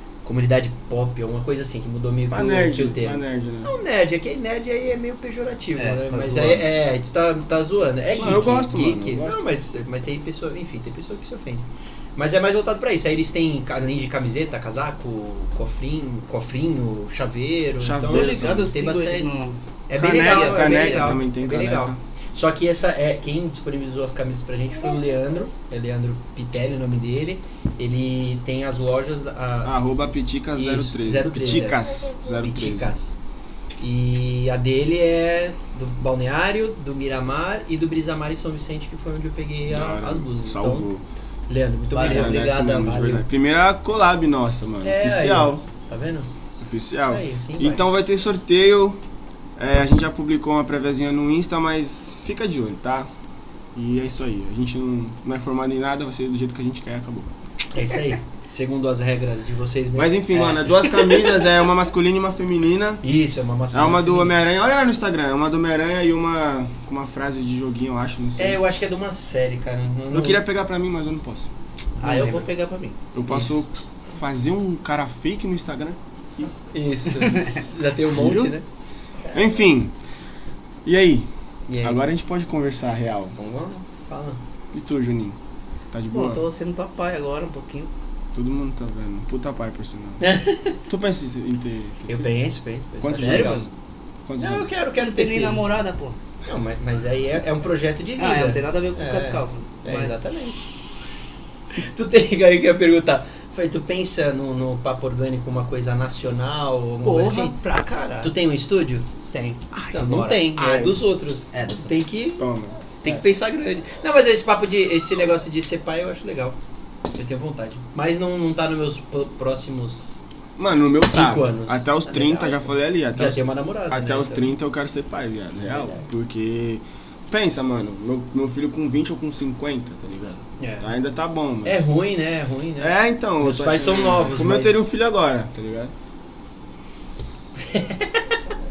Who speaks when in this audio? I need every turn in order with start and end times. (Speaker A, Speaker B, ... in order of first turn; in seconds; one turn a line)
Speaker A: 0.2-11.6
Speaker B: 2.3-3.7
Speaker C: 5.8-6.6
Speaker B: 8.1-9.4
Speaker A: 12.2-19.3
Speaker B: 17.8-18.7
Speaker C: 18.0-21.2
Speaker A: 19.9-29.7
Speaker B: 19.9-22.0
Speaker B: 29.6-32.9
Speaker A: 30.5-31.8
Speaker A: 32.4-33.2
Speaker A: 33.8-40.9
Speaker B: 39.7-41.0
Speaker A: 41.5-43.2
Speaker C: 41.9-42.5
Speaker B: 42.0-45.6
Speaker A: 44.8-46.3
Speaker B: 46.6-49.0
Speaker A: 47.0-47.8
Speaker B: 49.6-53.1
Speaker B: 53.8-57.3
Speaker A: 57.7-61.3
Speaker B: 60.0-63.0
Speaker A: 63.0-64.4
Speaker B: 63.7-68.6
Speaker A: 68.4-70.4
Speaker B: 70.1-71.5
Speaker A: 72.0-72.5
Speaker C: 72.0-73.5
Speaker B: 73.1-76.5
Speaker A: 76.7-78.6
Speaker C: 77.2-77.5
Speaker B: 78.1-78.5
Speaker B: 79.3-79.9
Speaker B: 80.8-81.3
Speaker A: 81.7-82.1
Speaker B: 81.8-83.3
Speaker A: 83.4-84.4
Speaker B: 84.7-85.4
Speaker B: 85.9-86.5
Speaker C: 86.1-87.9
Speaker B: 88.3-90.2
Speaker A: 90.2-90.8
Speaker B: 90.9-92.3
Speaker A: 92.1-93.7
Speaker B: 93.0-93.7
Speaker C: 93.2-93.7
Speaker B: 94.3-94.7
Speaker A: 94.4-95.6
Speaker C: 95.0-96.2
Speaker A: 96.5-100.6
Speaker C: 98.2-100.2
Speaker A: 101.8-107.6
Speaker C: 107.0-108.3
Speaker A: 108.2-109.1
Speaker C: 109.3-110.5
Speaker A: 109.9-112.5
Speaker B: 110.5-111.0
Speaker C: 111.5-112.0
Speaker B: 112.4-112.8
Speaker A: 113.0-116.6
Speaker A: 117.1-120.2
Speaker B: 120.6-131.9
Speaker A: 121.0-124.5
Speaker A: 125.6-126.1
Speaker A: 130.6-130.9
Speaker A: 131.6-134.8
Speaker B: 132.8-135.9
Speaker A: 137.6-138.2